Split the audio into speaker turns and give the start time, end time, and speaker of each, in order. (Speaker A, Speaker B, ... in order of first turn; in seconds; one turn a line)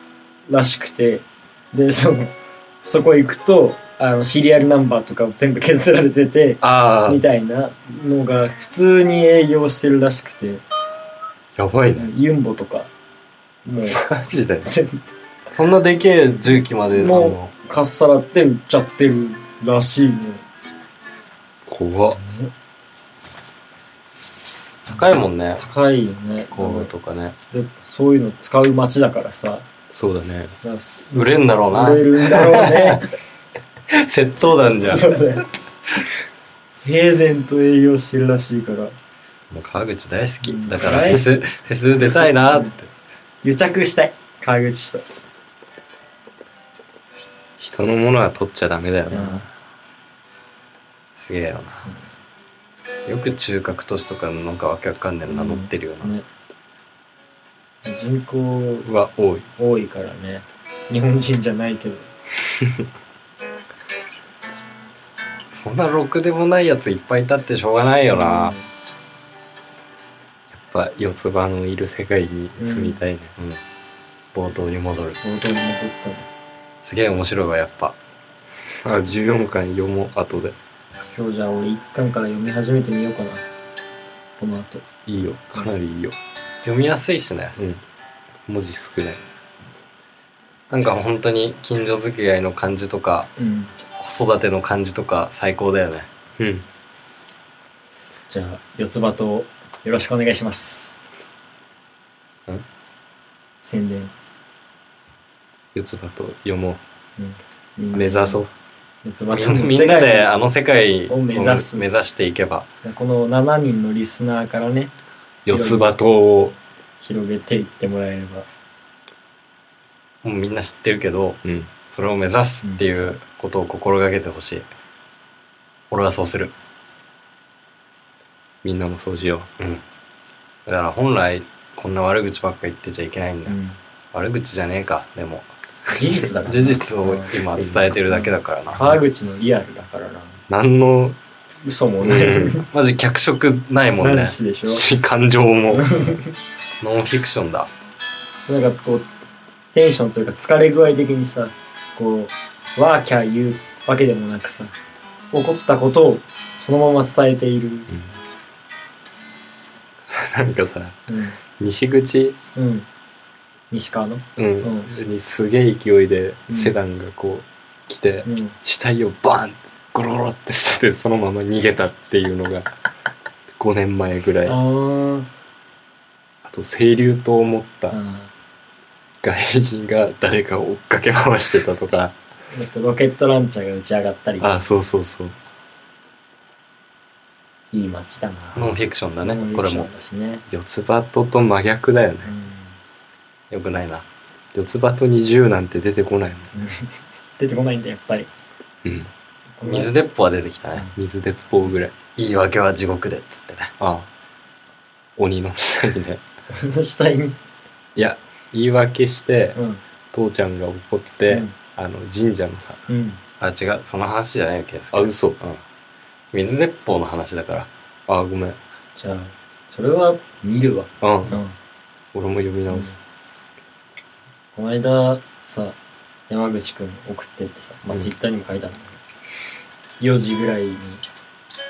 Speaker A: 0.5-2.3
Speaker A: 2.8-10.6
Speaker B: 6.6-7.2
Speaker B: 11.6-12.1
Speaker A: 11.9-12.9
Speaker A: 13.6-15.0
Speaker B: 13.9-14.7
Speaker C: 15.5-17.5
Speaker A: 16.9-20.4
Speaker B: 21.6-22.2
Speaker A: 22.2-22.5
Speaker C: 24.9-25.6
Speaker A: 25.6-26.9
Speaker C: 26.5-27.4
Speaker A: 27.5-29.6
Speaker B: 29.9-30.5
Speaker A: 30.6-33.1
Speaker C: 31.1-32.8
Speaker C: 33.9-35.2
Speaker A: 34.7-35.5
Speaker A: 36.8-38.9
Speaker C: 39.5-42.9
Speaker A: 40.4-41.4
Speaker A: 42.0-42.7
Speaker A: 43.4-45.0
Speaker B: 47.6-49.5
Speaker A: 49.1-49.4
Speaker C: 51.2-51.9
Speaker C: 53.0-56.1
Speaker A: 55.3-56.2
Speaker A: 57.8-58.9
Speaker B: 58.8-59.5
Speaker A: 59.6-62.1
Speaker C: 65.5-68.5
Speaker A: 68.1-68.7
Speaker B: 70.5-73.3
Speaker A: 72.6-73.0
Speaker C: 74.3-75.2
Speaker A: 75.2-76.3
Speaker C: 76.8-78.0
Speaker B: 78.8-80.5
Speaker A: 81.0-83.4
Speaker A: 84.4-84.8
Speaker B: 85.0-86.2
Speaker C: 86.6-87.6
Speaker B: 88.5-89.2
Speaker C: 90.7-93.3
Speaker A: 93.4-93.7
Speaker C: 94.0-96.1
Speaker B: 96.4-96.6
Speaker A: 98.3-100.9
Speaker A: 103.6-104.1
Speaker B: 105.7-106.8
Speaker A: 107.2-108.4
Speaker B: 107.9-108.5
Speaker A: 109.0-110.3
Speaker C: 109.3-112.7
Speaker A: 111.1-111.8
Speaker A: 112.8-114.9
Speaker B: 115.5-116.5
Speaker A: 115.5-115.9
Speaker A: 117.0-118.5
Speaker C: 120.2-124.7
Speaker B: 121.4-121.7
Speaker A: 122.6-123.1
Speaker C: 125.9-126.5
Speaker B: 128.6-129.5
Speaker C: 130.7-133.6
Speaker A: 133.5-133.8
Speaker C: 134.1-139.0
Speaker A: 135.9-137.3
Speaker B: 137.6-137.9
Speaker A: 138.7-140.3
Speaker B: 140.5-141.2
Speaker A: 141.6-142.7
Speaker B: 142.0-142.6
Speaker C: 142.7-144.3
Speaker A: 144.0-144.8
Speaker B: 144.7-146.2
Speaker A: 145.7-146.3
Speaker C: 146.8-147.7
Speaker A: 148.5-149.1
Speaker A: 149.7-154.7
Speaker A: 155.3-157.9
Speaker B: 160.1-161.0
Speaker A: 161.1-161.4
Speaker B: 161.5-162.4
Speaker A: 162.6-162.9
Speaker A: 163.7-164.9
Speaker B: 164.4-172.7
Speaker A: 166.5-166.8
Speaker A: 168.2-168.6
Speaker B: 173.5-174.6
Speaker A: 174.4-175.3
Speaker B: 176.4-178.0
Speaker A: 177.9-178.3
Speaker B: 179.2-182.1
Speaker A: 182.5-184.6
Speaker B: 184.4-185.3
Speaker A: 187.7-188.7
Speaker C: 188.5-189.9
Speaker A: 189.2-190.4
Speaker B: 190.5-192.3
Speaker A: 192.2-192.7
Speaker C: 193.5-194.0
Speaker B: 194.5-196.5
Speaker A: 196.5-196.8
Speaker A: 197.4-198.3
Speaker B: 198.8-199.1
Speaker A: 199.6-199.9
Speaker C: 199.6-200.9
Speaker B: 200.9-201.9
Speaker C: 202.2-203.7
Speaker B: 203.8-204.1
Speaker B: 205.2-206.2
Speaker A: 206.5-207.4
Speaker B: 207.9-209.6
Speaker A: 209.6-209.8
Speaker B: 210.1-212.8
Speaker A: 212.9-213.2
Speaker C: 213.4-215.6
Speaker B: 214.9-215.4
Speaker C: 216.3-217.7
Speaker B: 218.1-218.6
Speaker A: 218.9-221.5
Speaker B: 221.0-221.3
Speaker B: 222.1-222.9
Speaker A: 224.5-225.7
Speaker A: 226.3-229.0
Speaker A: 230.0-231.0